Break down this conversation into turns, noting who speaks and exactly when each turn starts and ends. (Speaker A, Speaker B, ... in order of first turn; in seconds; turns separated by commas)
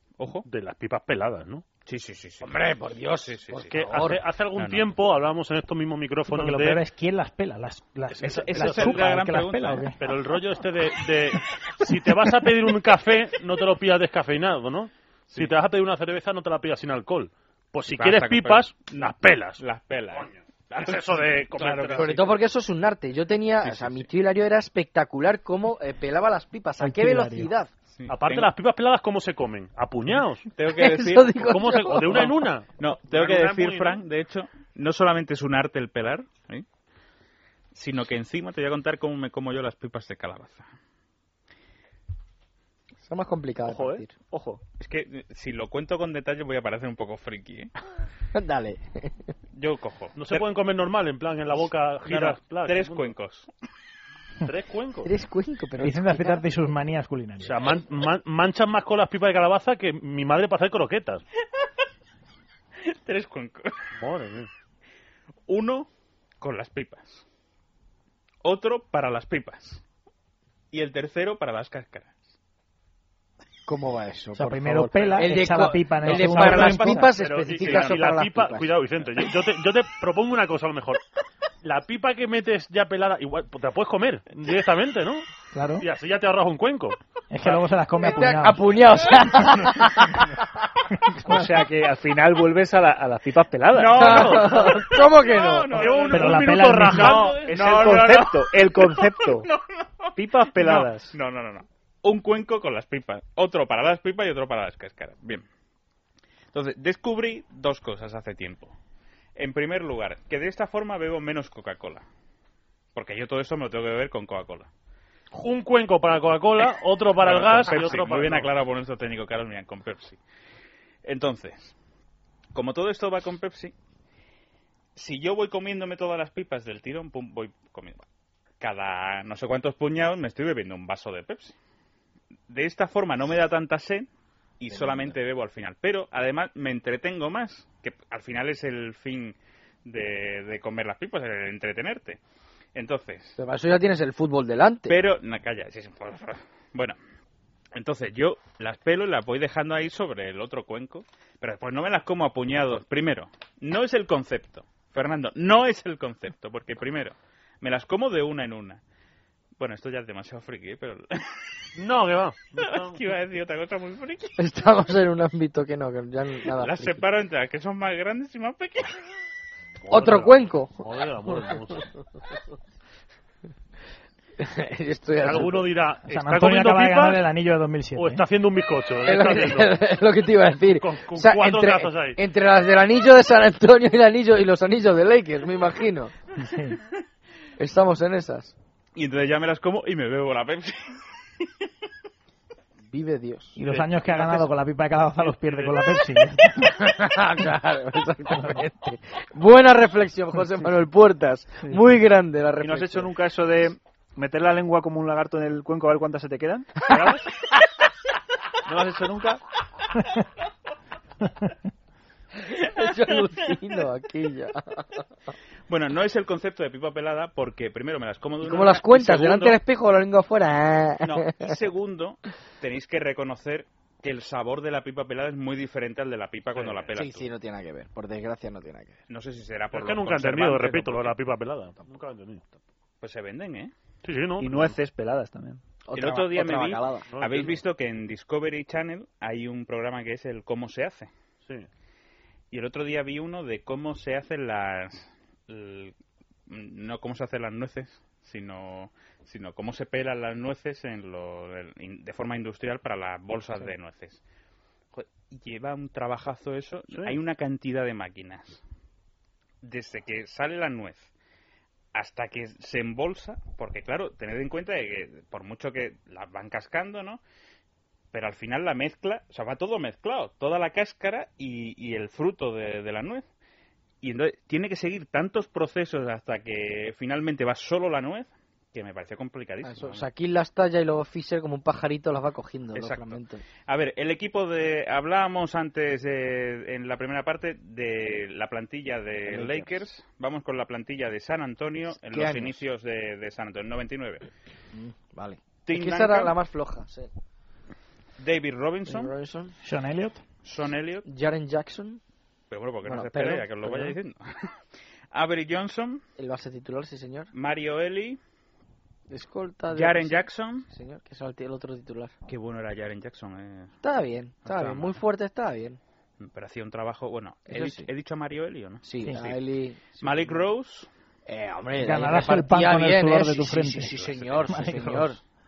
Speaker A: 0.2-0.5, Speaker B: 0.5-1.6, Speaker A: 1.9-3.8, Speaker C: 2.4-4.2, Speaker B: 3.7-6.8, Speaker A: 4.5-4.9, Speaker D: 6.3-10.0, Speaker B: 8.2-9.1, Speaker A: 8.2-9.9, Speaker B: 10.0-19.6, Speaker A: 17.9-22.2, Speaker B: 20.2-22.3, Speaker C: 21.9-27.7, Speaker D: 26.8-27.5, Speaker A: 27.9-28.5, Speaker B: 28.1-30.5, Speaker A: 30.6-31.5, Speaker C: 30.7-32.5, Speaker B: 31.5-34.0, Speaker A: 32.1-36.6, Speaker A: 37.7-40.7, Speaker C: 43.0-44.1, Speaker E: 43.7-44.6, Speaker A: 44.8-47.7, Speaker C: 48.3-49.1, Speaker A: 49.5-50.4, Speaker B: 50.2-53.1, Speaker A: 52.1-53.5, Speaker B: 54.4-55.1, Speaker C: 55.0-56.4, Speaker D: 55.8-57.6, Speaker B: 57.4-61.2, Speaker A: 62.8-63.8, Speaker B: 64.0-64.5, Speaker A: 65.5-65.9, Speaker A: 66.4-67.2, Speaker A: 68.4-69.8, Speaker A: 70.7-72.2, Speaker C: 73.7-78.7, Speaker D: 74.4-77.1, Speaker A: 76.1-78.0, Speaker B: 76.4-81.0, Speaker B: 81.6-85.2, Speaker D: 85.5-85.9, Speaker B: 85.8-87.6, Speaker D: 87.3-88.6, Speaker C: 88.0-90.3, Speaker E: 91.3-94.5, Speaker A: 93.7-105.5, Speaker C: 94.0-95.9, Speaker B: 95.7-97.8, Speaker D: 96.1-97.2, Speaker E: 97.5-99.5, Speaker E: 100.2-101.2, Speaker A: 106.5-108.7, Speaker A: 109.4-112.0, Speaker A: 113.0-114.7, Speaker B: 115.3-118.5, Speaker A: 117.2-120.2, Speaker A: 121.0-121.7, Speaker A: 122.5-123.7, Speaker A: 125.0-128.0, Speaker A: 128.6-131.6, Speaker A: 132.5-134.1, Speaker A: 134.6-142.2, Speaker C: 134.7-135.2, Speaker A: 142.8-143.4, Speaker C: 143.4-145.0, Speaker A: 144.9-147.0, Speaker A: 147.7-158.8, Speaker A: 159.6-161.3, Speaker B: 161.8-163.0, Speaker A: 162.6-164.4, Speaker C: 164.4-167.1, Speaker A: 166.6-169.0, Speaker C: 169.8-170.9, Speaker B: 169.9-171.9, Speaker C: 174.4-175.7, Speaker B: 175.2-177.2, Speaker D: 176.1-178.2, Speaker B: 177.9-179.8, Speaker C: 179.0-186.1, Speaker B: 180.8-182.2, Speaker D: 186.4-186.8, Speaker C: 187.6-188.6, Speaker A: 189.0-191.5, Speaker C: 192.9-193.6, Speaker D: 193.6-196.7, Speaker B: 193.7-194.5, Speaker B: 195.2-195.9, Speaker C: 196.7-203.1, Speaker E: 202.6-207.2, Speaker E: 208.7-209.4, Speaker C: 212.5-215.0, Speaker A: 215.7-219.5, Speaker C: 218.4-221.6, Speaker A: 221.0-227.3, Speaker B: 226.6-226.9, Speaker C: 226.9-229.0, Speaker A: 229.1-231.2, Speaker B: 229.7-232.5, Speaker A: 233.0-233.7, Speaker B: 234.0-234.8, Speaker E: 234.4-235.6, Speaker C: 235.9-237.1, Speaker A: 235.9-241.1, Speaker B: 237.1-237.6, Speaker A: 242.5-245.9, Speaker A: 246.5-254.2, Speaker A: 254.9-258.6, Speaker B: 256.9-257.2, Speaker A: 259.6-261.1, Speaker A: 261.9-267.2, Speaker A: 268.1-273.2, Speaker A: 274.0-280.1, Speaker C: 279.6-283.4, Speaker A: 282.7-294.3, Speaker C: 289.3-289.8, Speaker C: 292.0-292.6, Speaker C: 294.7-297.1, Speaker A: 295.7-296.4, Speaker A: 298.2-299.1, Speaker C: 298.9-299.5, Speaker D: 299.6-300.2, Speaker A: 300.4-301.1, Speaker C: 301.1-302.0, Speaker A: 302.5-304.6, Speaker C: 302.8-304.0, Speaker A: 305.1-306.0, Speaker C: 306.2-307.3, Speaker A: 307.3-308.2, Speaker C: 309.1-312.1, Speaker A: 309.7-310.7, Speaker A: 312.3-313.7, Speaker C: 313.8-315.8, Speaker A: 314.4-315.0, Speaker A: 316.2-319.4, Speaker C: 317.5-317.9, Speaker C: 318.8-320.4, Speaker A: 320.0-320.9, Speaker C: 321.3-325.2, Speaker D: 321.8-323.9, Speaker A: 323.9-324.5, Speaker D: 324.5-325.2